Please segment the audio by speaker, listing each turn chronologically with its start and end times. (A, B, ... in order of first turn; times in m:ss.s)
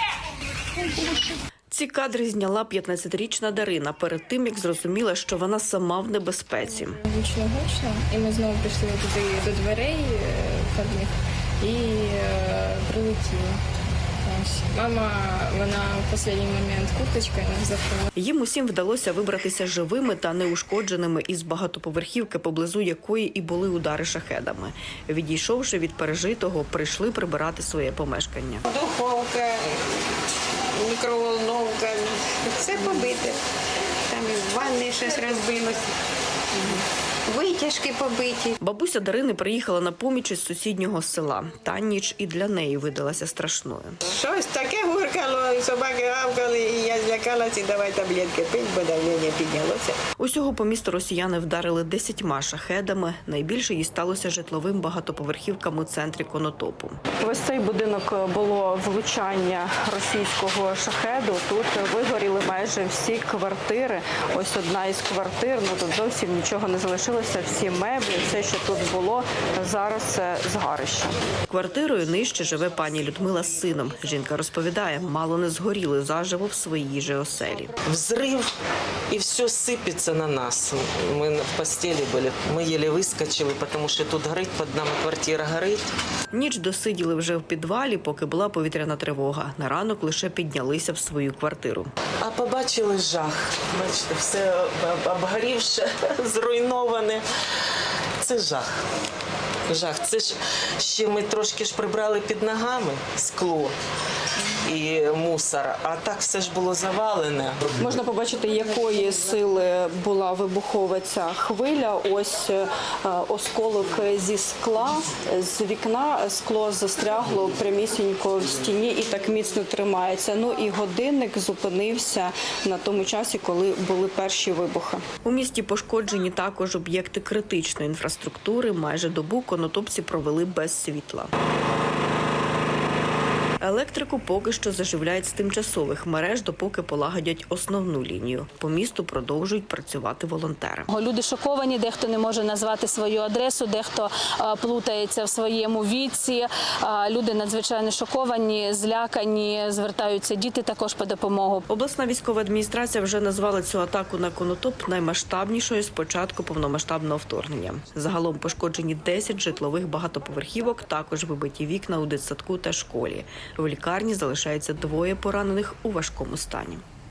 0:01.7-0:07.0 A
0:07.1-0:13.6 B
0:14.3-0:18.1 B
0:18.2-0:28.6 A
0:28.7-0:33.4 C
0:34.1-0:35.9 C
0:36.5-0:38.6 C
0:38.6-0:44.0 A
0:44.0-0:50.0 C
0:50.2-0:57.0 A
0:57.1-1:11.1 D
1:11.5-1:17.7 A
1:17.9-1:18.5 E
1:19.1-1:25.9 E
1:26.3-1:31.9 A
1:32.2-1:37.2 E
1:38.2-1:38.7 E
1:39.7-1:43.7 E
1:44.4-1:47.7 E
1:47.8-2:05.0 D
2:05.2-2:11.3 A
2:13.6-2:20.9 A
2:20.9-2:31.6 F
2:31.7-2:46.8 A